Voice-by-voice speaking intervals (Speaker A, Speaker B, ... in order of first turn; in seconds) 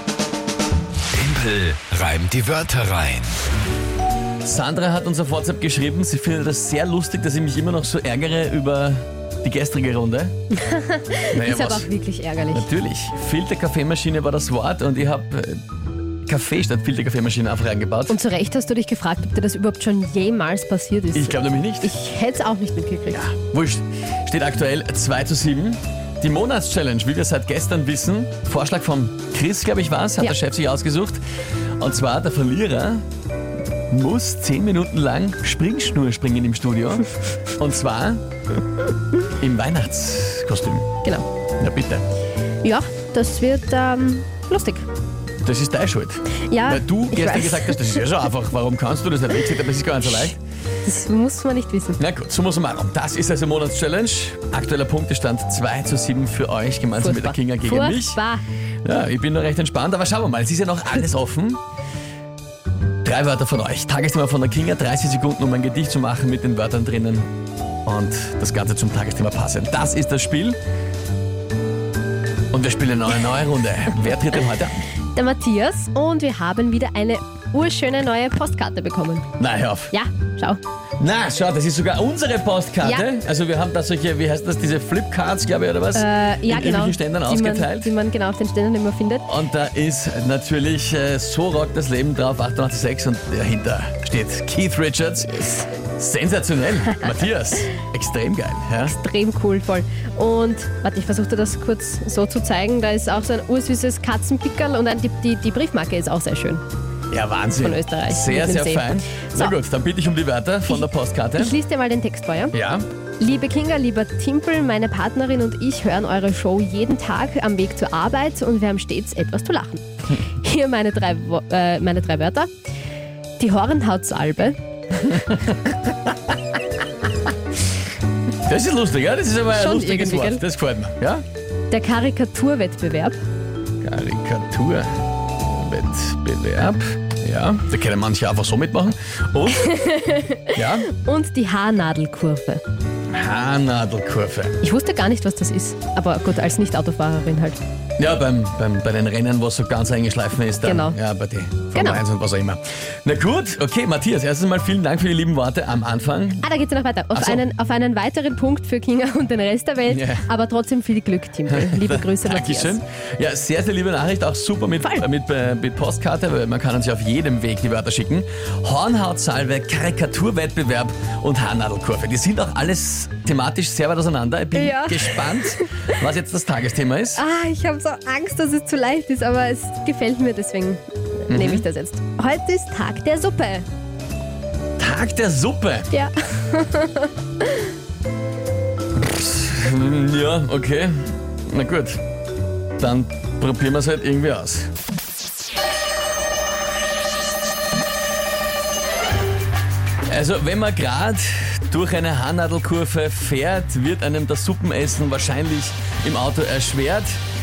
Speaker A: 1.1-3.4
Speaker B: 4.4-10.3, 11.3-11.9, 12.5-15.6, 16.2-18.2, 21.1-21.9, 23.1-31.2, 31.8-33.0, 33.9-38.2, 39.3-40.9, 41.6-42.0, 45.4-50.4, 52.0-58.2, 58.8-61.6, 63.0-67.3, 67.8-70.6, 72.5-74.8, 79.4-79.9, 81.0-87.9, 89.2-95.4, 95.9-98.9, 107.1-111.5, 112.5-112.9, 128.4-131.2, 133.8-139.8, 140.5-140.9, 143.1-144.6, 148.0-156.5, 157.1-157.4, 159.9-160.2, 161.5-177.2, 181.3-181.7, 184.8-185.9, 188.9-192.0, 192.8-194.7, 200.1-207.2
Speaker C: 10.5-12.7, 18.1-23.3, 42.6-44.9, 46.4-48.1, 50.8-52.0, 57.0-58.4, 75.1-79.2, 79.9-80.6, 82.8-83.1, 85.9-89.3, 95.2-95.7, 98.8-106.6, 107.6-109.5, 110.7-112.6, 113.2-122.5, 123.4-125.4, 129.5-130.4, 131.7-133.2, 139.6-142.6, 144.6-147.6, 150.6-151.0, 151.7-152.0, 156.4-162.8, 174.5-175.9, 177.2-183.7, 185.9-187.7